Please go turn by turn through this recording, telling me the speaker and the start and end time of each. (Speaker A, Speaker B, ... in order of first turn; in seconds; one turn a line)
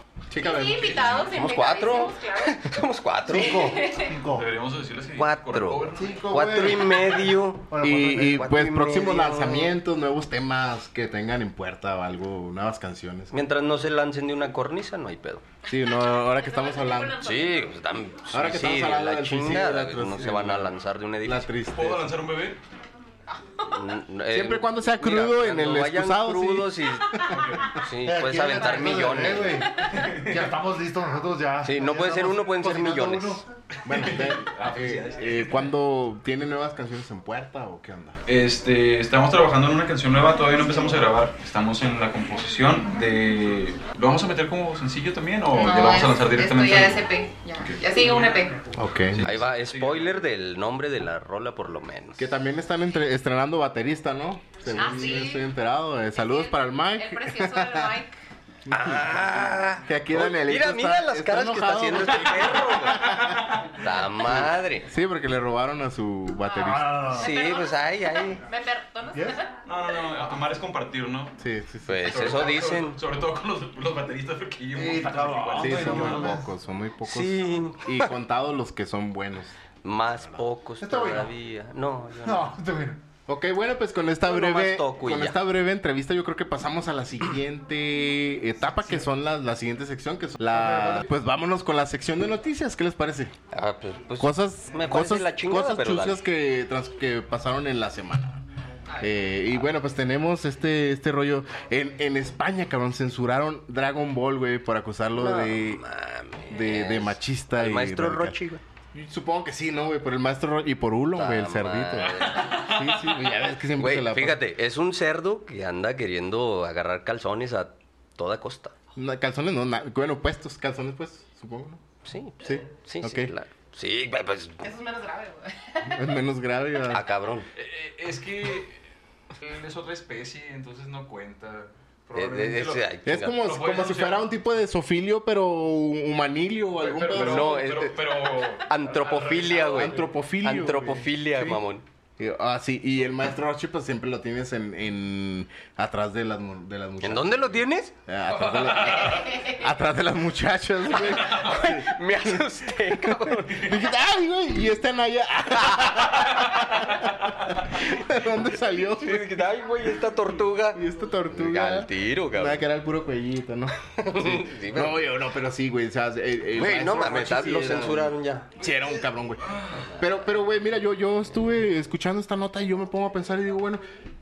Speaker A: 0.3-1.4
Speaker B: 0.4-2.8
Speaker C: 0.8-1.2
Speaker D: 1.3-3.6
Speaker E: 3.3-4.5
Speaker B: 3.3-4.2
Speaker C: 4.3-6.2
Speaker D: 5.2-9.7
Speaker E: 6.0-8.5
Speaker C: 6.8-7.3
Speaker A: 7.8-13.4
Speaker D: 13.3-15.5
Speaker A: 15.7-17.2
Speaker B: 15.7-17.9
Speaker D: 17.2-21.6
Speaker A: 18.3-22.1
Speaker C: 21.7-22.6
Speaker D: 23.7-27.2
Speaker A: 24.3-27.4
Speaker C: 27.3-27.8
Speaker D: 27.8-29.6
Speaker E: 28.0-33.5
Speaker C: 29.9-30.5
Speaker D: 31.6-33.4
Speaker A: 33.8-38.2
Speaker C: 33.9-35.7
Speaker C: 38.2-47.1
Speaker B: 45.5-48.6
Speaker C: 47.6-48.5
Speaker A: 48.7-49.3
Speaker C: 49.1-50.2
Speaker D: 49.2-52.3
Speaker A: 52.2-58.0
Speaker B: 54.7-55.5
Speaker B: 56.1-58.2
Speaker A: 58.7-63.7
Speaker D: 58.7-63.1
Speaker C: 62.2-63.9
Speaker D: 63.8-64.9
Speaker A: 64.2-67.1
Speaker B: 66.5-69.6
Speaker E: 66.5-67.3
Speaker D: 67.1-68.4
Speaker C: 69.6-71.4
Speaker A: 71.4-72.4
Speaker D: 71.9-73.0
Speaker C: 72.0-76.3
Speaker E: 74.8-76.5
Speaker A: 75.6-79.6
Speaker D: 77.0-78.1
Speaker D: 79.8-82.5
Speaker E: 80.8-81.3
Speaker E: 82.2-83.0
Speaker A: 83.3-93.4
Speaker D: 84.2-85.4
Speaker E: 88.8-89.1
Speaker E: 90.5-91.1
Speaker D: 93.5-96.2
Speaker A: 94.2-98.4
Speaker A: 99.0-105.8
Speaker D: 105.2-108.6
Speaker A: 106.5-108.4
Speaker A: 108.9-114.4
Speaker D: 111.1-112.7
Speaker D: 113.8-118.7
Speaker A: 119.0-121.8
Speaker D: 122.0-124.6
Speaker A: 122.4-123.3
Speaker B: 124.6-126.2
Speaker A: 125.8-127.1
Speaker D: 126.9-127.5
Speaker C: 127.5-128.9
Speaker C: 129.4-132.9
Speaker D: 132.1-133.4
Speaker A: 133.1-137.7
Speaker C: 133.4-134.3
Speaker C: 136.8-140.1
Speaker D: 137.1-138.0
Speaker D: 138.7-141.8
Speaker A: 139.6-141.6
Speaker A: 142.2-159.5
Speaker D: 147.0-147.9
Speaker C: 148.3-149.3
Speaker B: 149.0-149.7
Speaker C: 151.0-151.7
Speaker D: 151.2-153.9
Speaker D: 155.6-156.0
Speaker C: 156.1-157.6
Speaker D: 158.7-162.6
Speaker A: 160.7-173.8
Speaker D: 164.0-165.0
Speaker D: 166.5-168.5
Speaker C: 169.5-169.9